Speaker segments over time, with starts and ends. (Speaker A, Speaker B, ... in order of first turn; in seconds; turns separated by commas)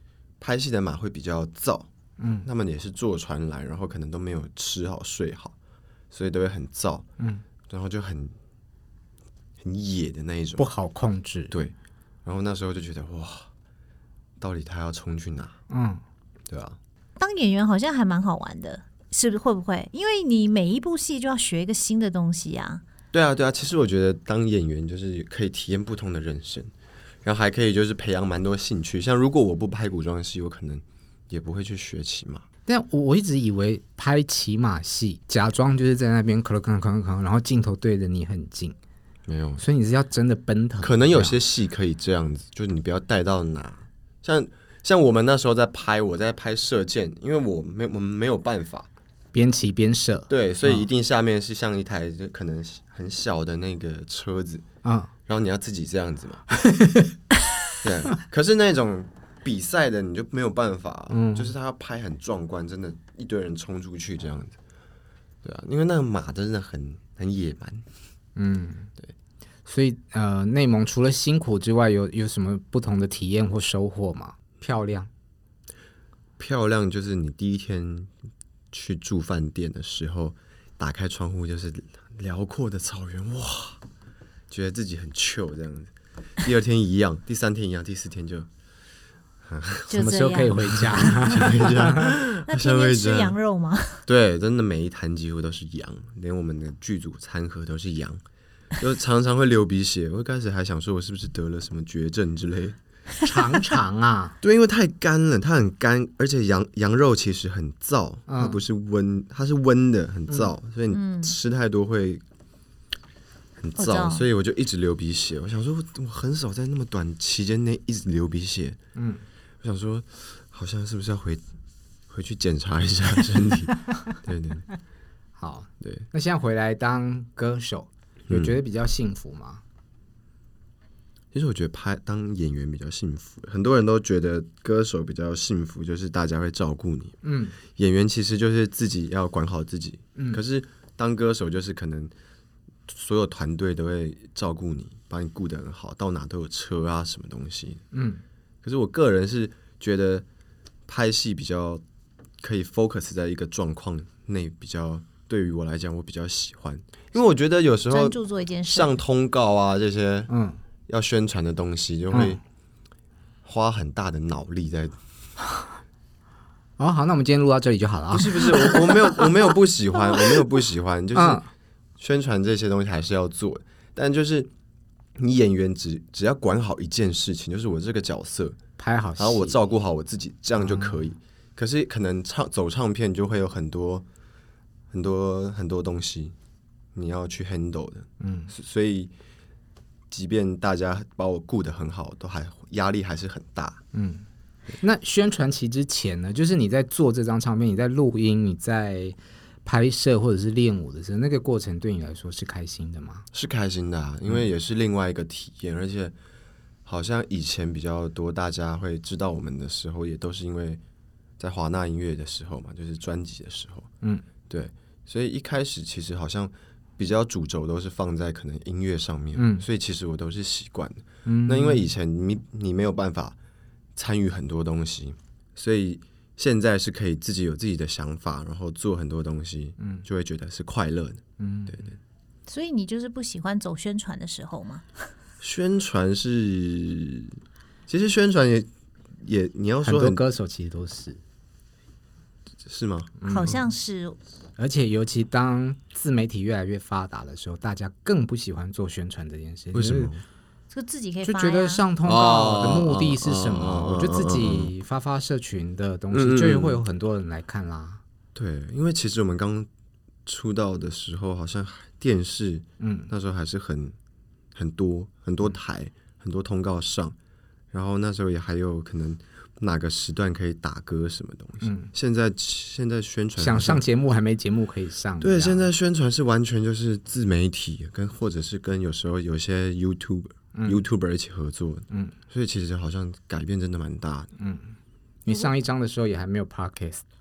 Speaker A: 0.4-1.9, Speaker B: 2.2-2.5, Speaker A: 2.4-5.5, Speaker A: 6.1-7.0, Speaker A: 7.7-8.3, Speaker A: 9.6-10.7, Speaker B: 10.6-11.5, Speaker A: 12.2-13.5, Speaker A: 14.4-15.6, Speaker B: 15.7-16.0, Speaker A: 16.5-16.8, Speaker C: 17.2-22.8, Speaker A: 23.1-26.7, Speaker A: 27.2-32.5, Speaker B: 32.7-38.8, Speaker A: 39.3-39.6, Speaker B: 39.6-41.4, Speaker A: 40.8-48.9, Speaker B: 49.3-50.9, Speaker A: 50.3-54.6, Speaker B: 54.8-55.1, Speaker A: 55.3-56.4, Speaker B: 56.5-57.2, Speaker A: 57.8-64.6, Speaker B: 61.1-61.5, Speaker A: 65.4-67.9, Speaker B: 68.4-68.9, Speaker B: 69.7-75.1, Speaker A: 76.4-78.1, Speaker A: 78.7-83.8, Speaker A: 84.5-88.5, Speaker A: 89.5-90.0, Speaker C: 89.9-91.4, Speaker B: 89.9-92.1, Speaker A: 90.8-93.4, Speaker C: 92.4-94.0, Speaker A: 94.1-98.2, Speaker A: 98.8-102.8, Speaker B: 103.2-104.4, Speaker A: 104.4-112.2, Speaker B: 108.3-108.6, Speaker C: 110.9-111.4, Speaker A: 113.6-118.8, Speaker C: 113.8-114.3, Speaker B: 119.0-119.2, Speaker A: 119.6-121.4, Speaker A: 122.1-124.7, Speaker B: 125.4-129.6, Speaker A: 125.8-126.1, Speaker A: 128.3-128.5, Speaker A: 131.3-142.1, Speaker B: 137.2-137.6, Speaker A: 142.9-147.8, Speaker B: 147.9-148.2, Speaker A: 148.6-150.2, Speaker A: 150.9-151.8, Speaker A: 152.4-160.3, Speaker C: 157.9-158.9, Speaker B: 160.3-160.6, Speaker A: 160.9-162.4, Speaker B: 162.1-162.4, Speaker A: 163.4-165.0, Speaker B: 166.8-168.8, Speaker A: 168.1-171.4, Speaker B: 171.2-171.5, Speaker A: 172.0-174.5, Speaker A: 175.2-178.6, Speaker B: 178.8-179.6, Speaker A: 179.2-184.1, Speaker B: 180.6-181.0, Speaker A: 184.9-186.3, Speaker A: 186.9-189.1, Speaker B: 188.2-188.5, Speaker A: 190.1-193.8, Speaker B: 193.9-194.3, Speaker B: 194.8-203.2, Speaker A: 203.3-206.2, Speaker A: 206.9-210.8, Speaker A: 211.4-213.9, Speaker A: 214.5-223.4, Speaker B: 219.4-219.7, Speaker B: 221.3-221.9, Speaker A: 224.0-231.9, Speaker B: 231.4-231.9, Speaker C: 232.5-234.9, Speaker A: 235.4-237.4, Speaker A: 237.9-240.2, Speaker B: 239.8-241.2, Speaker A: 242.7-243.6, Speaker B: 243.2-243.6, Speaker C: 243.3-244.2, Speaker B: 244.6-250.1, Speaker A: 249.7-250.2, Speaker C: 250.7-251.8, Speaker B: 251.3-258.0, Speaker A: 252.1-254.7, Speaker A: 256.1-256.8, Speaker A: 258.4-259.7, Speaker A: 260.3-264.0, Speaker B: 262.8-263.1, Speaker A: 264.6-267.2, Speaker A: 267.7-273.8, Speaker B: 271.6-271.9, Speaker B: 273.4-275.7, Speaker A: 275.2-284.3, Speaker B: 280.5-280.8, Speaker B: 284.4-284.7, Speaker B: 285.2-287.0